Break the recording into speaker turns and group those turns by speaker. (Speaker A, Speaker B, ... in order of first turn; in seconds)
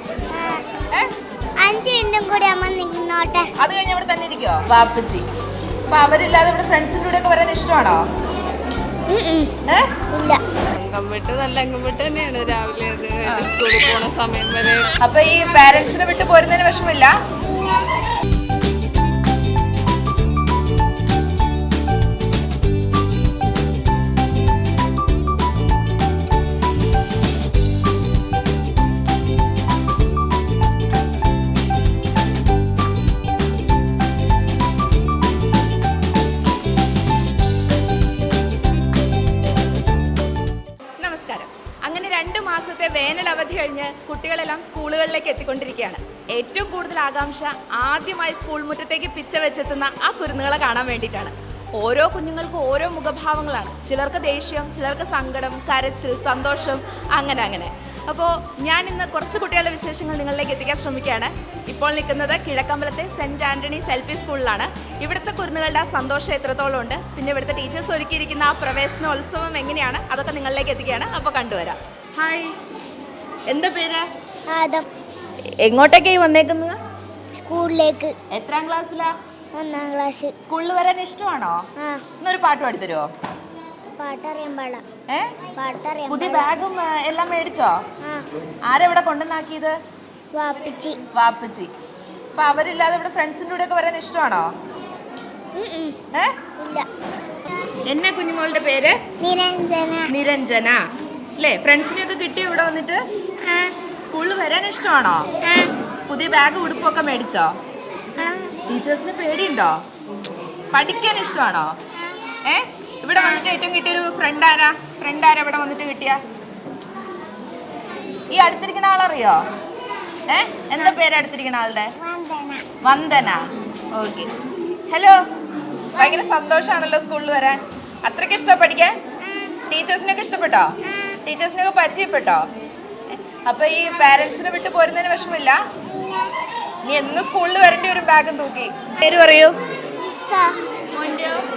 Speaker A: 0.3-0.6, 1.6-3.5, 9.1-9.5, 10.1-10.4, 74.5-74.9, 77.4-78.2, 79.5-80.3, 81.8-82.0, 84.0-84.8, 85.6-86.5, 90.3-91.0, 95.6-96.0, 96.6-96.9, 99.2-100.1, 103.5-103.7, 105.5-105.7, 108.2-108.5, 122.0-122.7, 126.0-126.3, 129.3-129.6, 130.9-131.2, 140.0-140.6
Speaker B: 3.6-5.2, 5.9-8.0, 15.0-17.1, 41.0-72.5, 73.5-74.1, 75.6-76.8, 78.3-79.1, 80.4-81.6, 82.2-83.1, 85.1-85.3, 86.1-87.8, 88.7-89.8, 91.1-91.7, 92.3-94.5, 97.9-99.0, 100.1-100.9, 101.4-103.0, 104.0-105.2, 106.1-107.5, 108.7-109.8, 110.7-111.8, 112.5-116.2, 118.3-119.4, 120.3-121.9, 122.8-124.3, 124.9-125.2, 126.0-128.9, 129.7-130.7, 131.2-132.4, 133.1-135.6, 136.9-139.6, 140.9-141.4
Speaker C: 10.8-14.9